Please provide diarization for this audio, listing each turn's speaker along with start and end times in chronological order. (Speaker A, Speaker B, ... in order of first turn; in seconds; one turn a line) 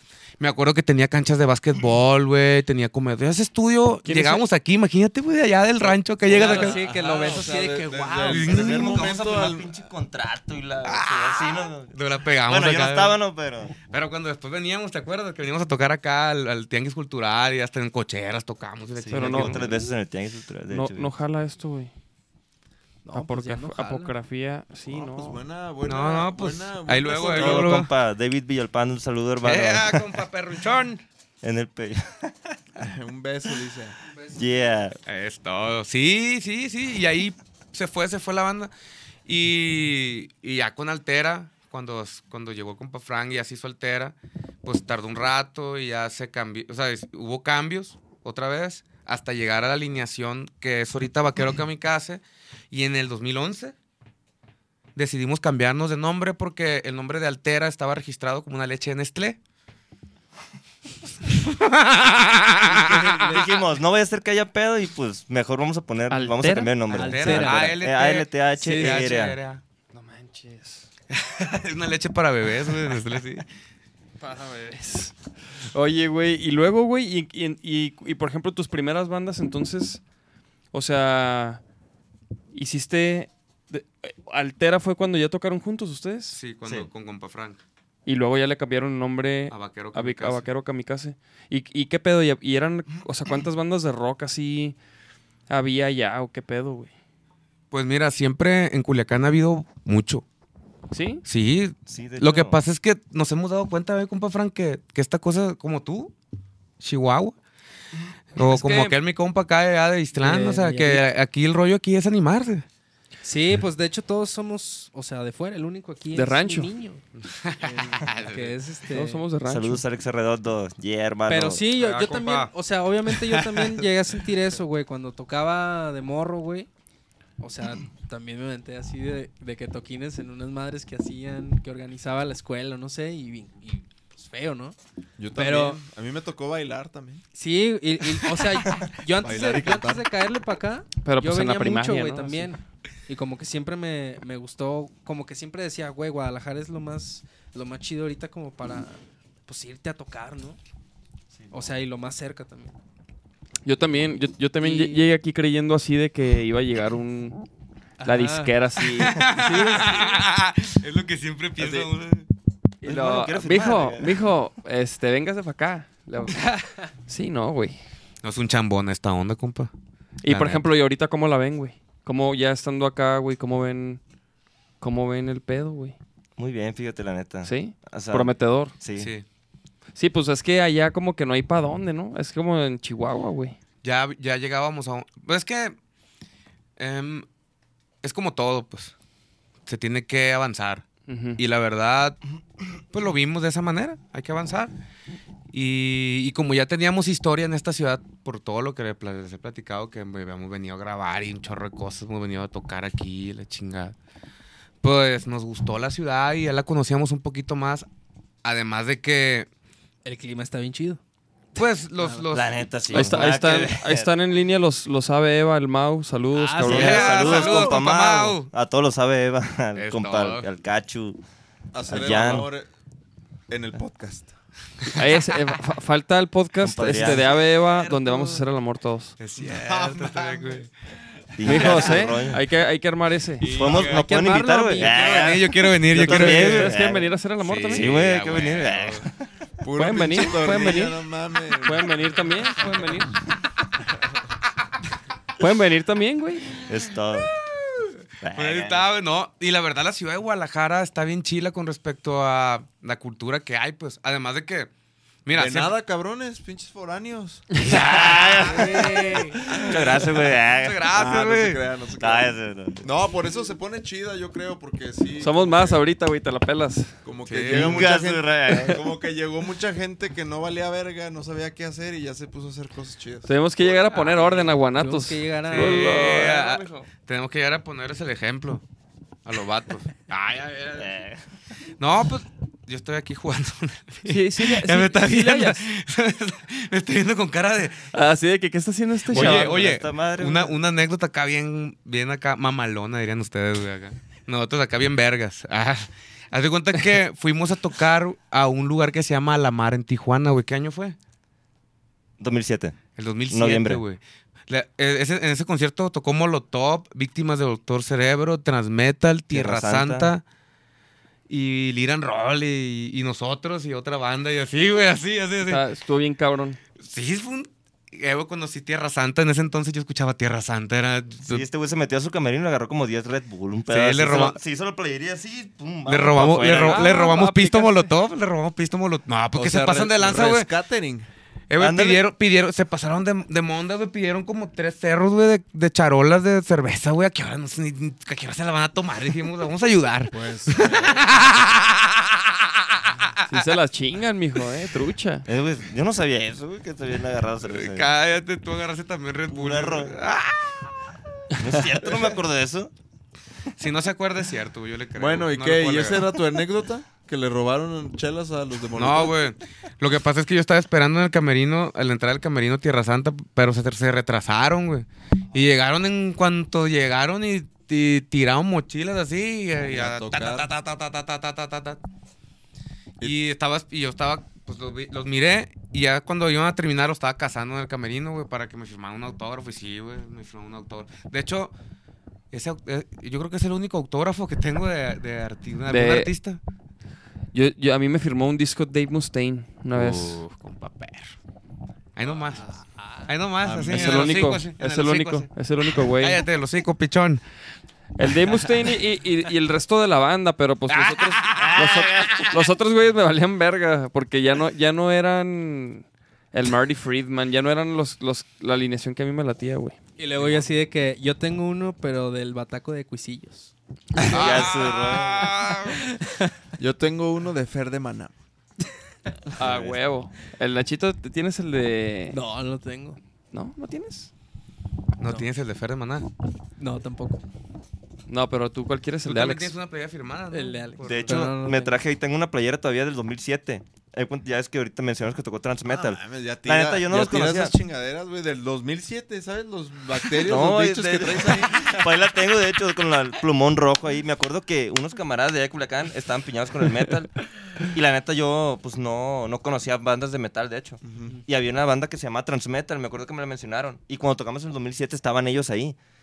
Speaker A: 0.4-7.4
Speaker B: 4.1-4.4
Speaker C: 6.2-9.7
Speaker D: 6.3-8.5
Speaker A: 8.2-9.1
Speaker E: 8.5-13.8
Speaker A: 10.8-13.2
Speaker A: 13.8-19.7
Speaker E: 19.0-21.1
Speaker B: 19.1-19.9
Speaker B: 20.7-21.9
Speaker D: 23.1-24.1
Speaker B: 23.1-25.4
Speaker C: 24.9-27.8
Speaker A: 25.9-27.9
Speaker E: 27.3-30.2
Speaker A: 29.4-31.0
Speaker E: 31.4-32.3
Speaker C: 32.8-34.0
Speaker E: 34.3-35.0
Speaker A: 35.1-38.7
Speaker A: 39.3-53.8
Speaker A: 55.0-59.4
Speaker A: 61.4-63.4
Speaker D: 62.6-63.5
Speaker E: 63.3-69.4
Speaker B: 66.1-67.0
Speaker D: 66.9-67.8
Speaker A: 66.9-69.6
Speaker D: 68.6-69.1
Speaker B: 69.9-70.9
Speaker A: 71.1-73.5
Speaker B: 74.3-75.1
Speaker B: 75.7-80.0
Speaker B: 80.7-81.6
Speaker B: 82.5-86.4
Speaker A: 86.3-87.6
Speaker E: 86.6-86.9
Speaker B: 88.1-94.8
Speaker A: 89.5-90.5
Speaker B: 95.5-96.9
Speaker A: 97.7-100.2
Speaker B: 100.9-101.2
Speaker A: 101.2-106.1
Speaker E: 101.9-102.6
Speaker A: 106.8-107.4
Speaker A: 108.4-112.6
Speaker B: 108.4-109.0
Speaker D: 110.1-111.0
Speaker D: 113.2-117.0
Speaker B: 116.1-116.7
Speaker A: 117.2-118.6
Speaker D: 117.6-119.2
Speaker B: 118.9-119.8
Speaker E: 119.5-121.7
Speaker D: 121.3-126.7
Speaker A: 121.8-122.5
Speaker A: 123.1-123.6
Speaker D: 127.4-134.8
Speaker C: 135.2-137.2
Speaker D: 135.3-135.8
Speaker D: 137.3-150.6
Speaker C: 139.2-140.1
Speaker B: 141.0-142.5
Speaker D: 151.5-152.7
Speaker B: 153.6-157.4
Speaker D: 154.6-155.1
Speaker D: 158.0-158.5
Speaker B: 158.0-159.3
Speaker A: 158.9-162.2
Speaker D: 159.3-160.2
Speaker E: 161.6-161.9
Speaker B: 162.8-166.4
Speaker E: 162.8-164.2
Speaker D: 166.5-166.8
Speaker B: 167.1-167.8
Speaker A: 168.2-169.7
Speaker B: 170.2-174.0
Speaker A: 170.3-170.6
Speaker B: 174.8-176.0
Speaker E: 176.4-179.1
Speaker B: 177.4-178.8
Speaker A: 178.9-179.2
Speaker B: 179.9-183.6
Speaker A: 183.8-185.8
Speaker A: 186.8-187.3
Speaker A: 188.0-188.9
Speaker A: 189.7-190.9
Speaker B: 191.1-191.4
Speaker A: 191.4-192.2
Speaker A: 192.9-194.7
Speaker A: 195.5-203.9
Speaker A: 204.8-207.9
Speaker A: 208.4-209.5
Speaker D: 210.1-211.0
Speaker A: 211.6-213.2
Speaker D: 212.0-212.3
Speaker E: 212.3-214.1
Speaker B: 212.9-217.2
Speaker D: 216.4-217.7
Speaker A: 216.6-218.5
Speaker E: 216.6-221.2
Speaker A: 219.8-220.5
Speaker C: 221.7-222.7
Speaker E: 221.9-222.5
Speaker C: 223.5-224.3
Speaker B: 224.9-229.1
Speaker E: 226.6-227.4
Speaker A: 227.9-228.3
Speaker A: 229.2-230.7
Speaker C: 229.4-230.7
Speaker E: 231.4-232.4
Speaker B: 231.4-233.5
Speaker A: 233.4-234.1
Speaker E: 233.5-237.1
Speaker D: 233.8-235.3
Speaker A: 234.8-236.8
Speaker B: 236.0-238.0
Speaker A: 237.4-239.0
Speaker E: 237.7-239.1
Speaker C: 239.6-242.7
Speaker B: 239.8-241.0
Speaker B: 241.6-243.1
Speaker B: 245.4-246.6
Speaker E: 246.7-247.3
Speaker E: 248.2-248.9
Speaker A: 248.3-254.7
Speaker A: 255.2-255.7
Speaker C: 255.3-257.5
Speaker E: 257.6-260.9
Speaker A: 257.6-258.7
Speaker D: 258.5-259.4
Speaker A: 260.6-261.6
Speaker C: 260.9-265.9
Speaker E: 262.0-262.8
Speaker B: 265.2-266.9
Speaker C: 267.0-273.4
Speaker A: 267.3-267.9
Speaker E: 267.5-268.8
Speaker B: 273.3-276.7
Speaker C: 273.9-274.2
Speaker D: 274.8-276.1
Speaker A: 275.5-278.6
Speaker A: 279.2-280.9
Speaker E: 280.8-281.2
Speaker A: 281.8-287.8
Speaker B: 284.1-285.6
Speaker B: 287.9-289.6
Speaker A: 289.1-301.0
Speaker E: 289.1-290.6
Speaker E: 302.2-303.8
Speaker A: 303.0-310.2
Speaker E: 309.3-310.1
Speaker A: 311.3-315.6
Speaker B: 315.4-316.6
Speaker A: 316.8-321.4
Speaker E: 321.3-327.1
Speaker A: 323.7-324.4
Speaker A: 325.9-330.5
Speaker B: 326.6-327.9
Speaker C: 329.3-331.1
Speaker A: 331.5-342.2
Speaker E: 331.6-332.1
Speaker C: 340.1-341.1
Speaker A: 342.7-343.4
Speaker B: 343.3-345.3
Speaker E: 345.3-347.9
Speaker A: 347.4-350.6
Speaker E: 349.3-350.0
Speaker E: 351.4-352.7
Speaker A: 353.6-356.1
Speaker C: 355.0-359.2
Speaker A: 358.8-371.8
Speaker C: 369.6-370.5
Speaker A: 373.0-381.5
Speaker A: 382.3-386.4
Speaker B: 385.7-386.1
Speaker B: 387.3-390.2
Speaker A: 389.7-391.1
Speaker A: 392.0-397.2
Speaker C: 393.4-394.3
Speaker B: 393.7-396.2
Speaker B: 398.0-409.8
Speaker A: 400.7-402.4
Speaker E: 401.4-402.3
Speaker D: 410.0-413.5
Speaker E: 414.1-415.4
Speaker A: 414.1-415.8
Speaker D: 414.2-414.5
Speaker C: 416.6-418.2
Speaker B: 419.4-422.2
Speaker E: 419.4-419.8
Speaker D: 422.1-423.0
Speaker B: 423.3-424.1
Speaker A: 425.0-426.1
Speaker D: 426.6-427.2
Speaker B: 428.1-429.5
Speaker A: 429.1-431.3
Speaker D: 430.3-431.8
Speaker E: 430.8-437.5
Speaker C: 435.6-441.8
Speaker E: 440.2-455.8
Speaker C: 450.8-451.1